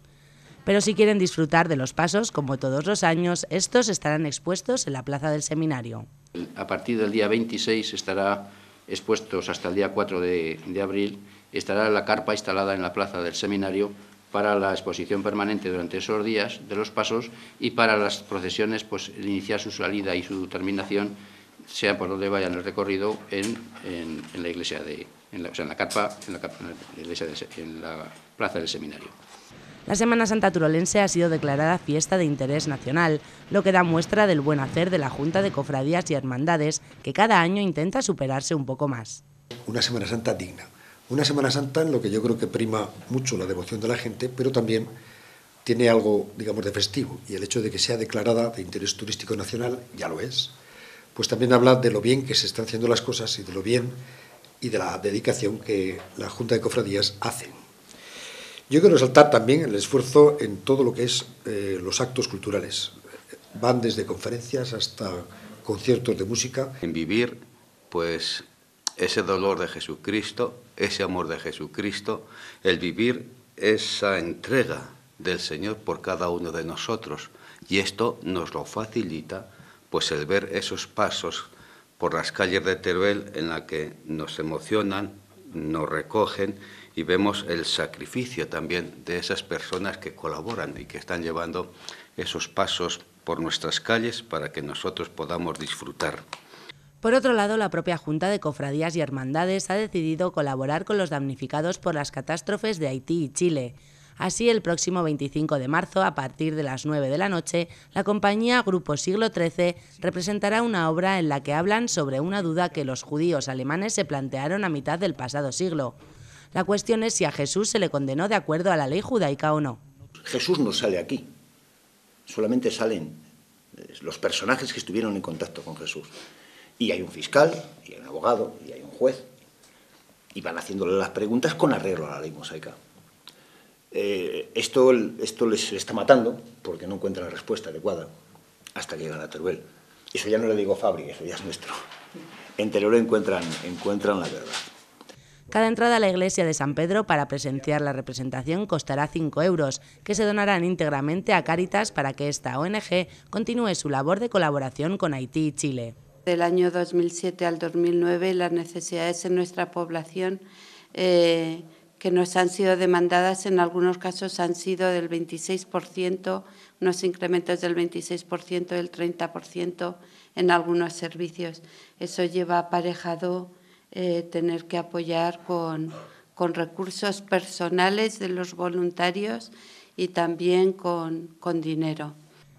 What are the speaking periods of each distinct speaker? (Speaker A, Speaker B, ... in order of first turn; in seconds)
Speaker A: 0.7-6.1, 29.9-39.2, 97.0-115.9, 116.5-119.8, 145.5-155.9
Speaker B: 6.4-21.2, 21.7-29.2
Speaker C: 39.7-44.9, 45.6-50.5, 51.1-54.0, 54.6-57.5, 58.7-62.9, 63.5-66.7
Speaker D: 66.8-67.4, 67.9-68.4, 69.0-96.2
Speaker E: 120.3-121.3, 122.3-123.2, 123.8-126.2, 126.8-129.3, 130.3-132.8, 133.9-138.1, 138.8-141.8, 142.6-144.7
Speaker F: 156.2-182.2